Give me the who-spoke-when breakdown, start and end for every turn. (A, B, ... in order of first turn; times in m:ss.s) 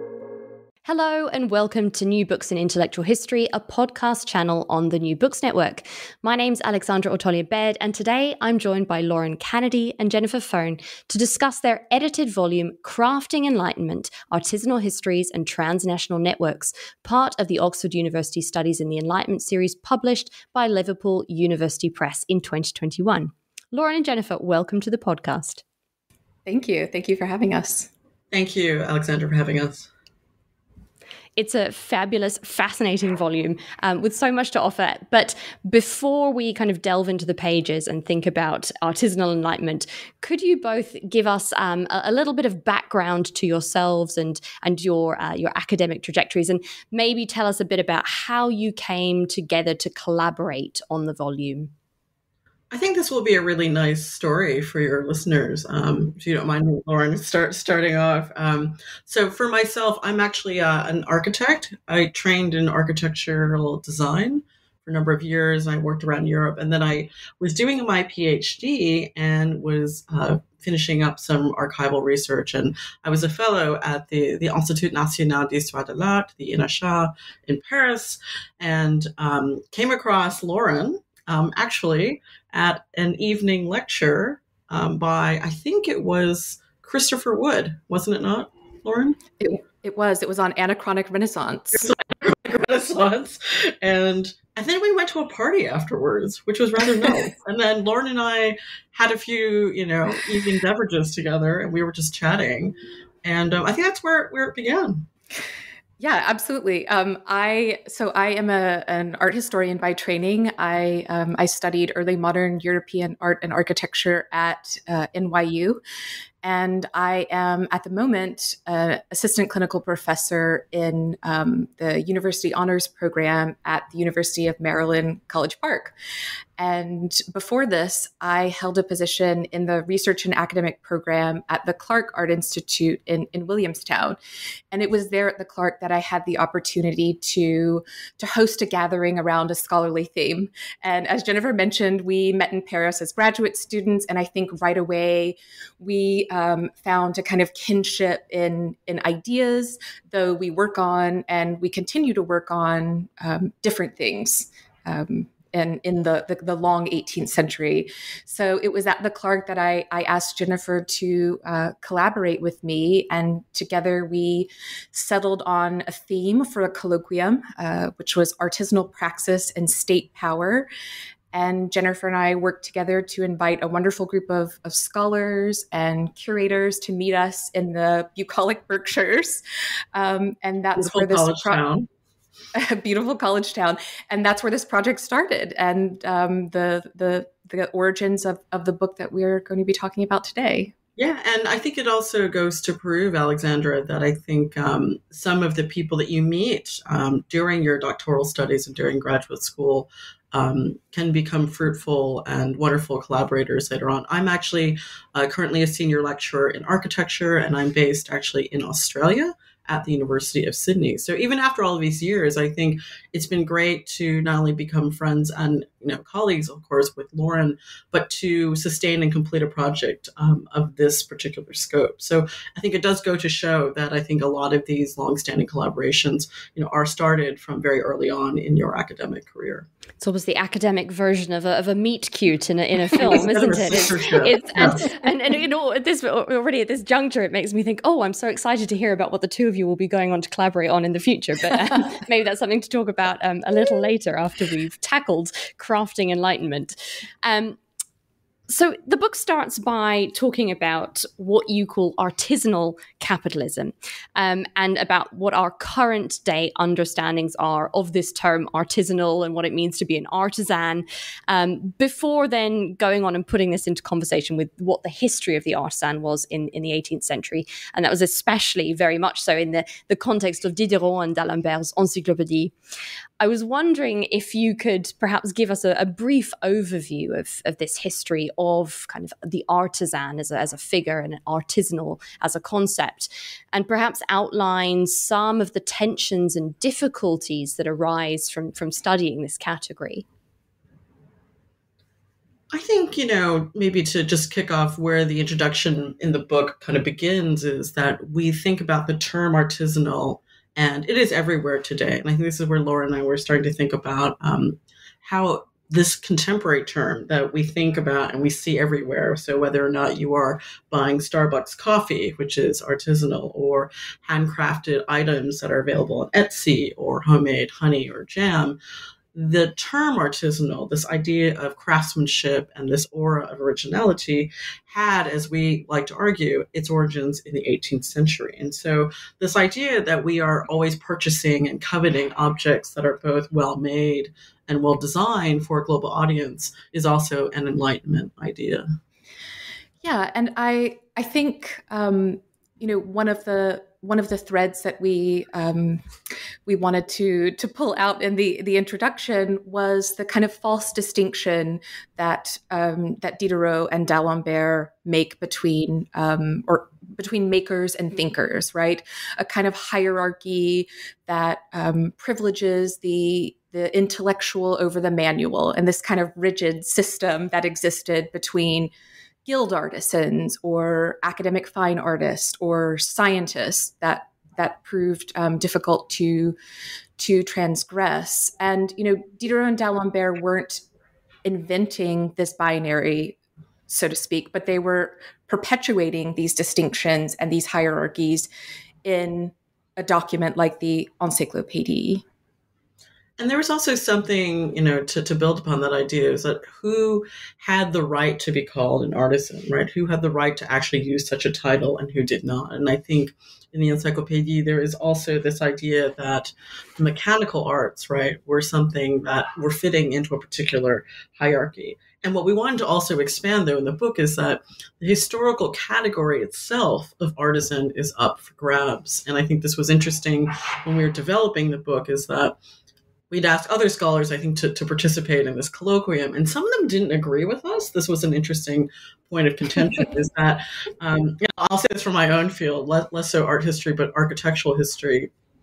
0:00.8-0:25.6 A
0:26.5-0:27.9 B
0:28.3-0:29.9 C
0:31.4-0:51.7 A
0:52.7-1:29.2 C
1:29.4-1:31.9 B
1:31.8-1:45.1 C
1:46.0-1:55.8 B
1:56.4-2:05.9 B
2:06.6-2:14.2 B
2:14.7-2:50.7 B
2:51.3-2:59.4 B
2:59.9-3:01.6 B
3:00.8-3:01.9 C
3:02.6-3:10.7 B
3:11.0-3:49.7 C
3:50.0-4:07.6 A
3:52.9-3:54.9 C
4:08.5-4:32.5 A
4:33.2-4:50.0 A
4:52.5-5:18.6 C
5:19.2-5:38.7 C
5:39.8-5:45.8 B
5:46.5-6:08.7 B
6:09.3-6:16.4 B
6:17.0-6:20.6 B
6:21.2-6:23.2 B
6:23.7-6:28.3 B
6:28.8-6:32.0 B
6:33.2-7:02.4 C
7:03.1-7:15.1 C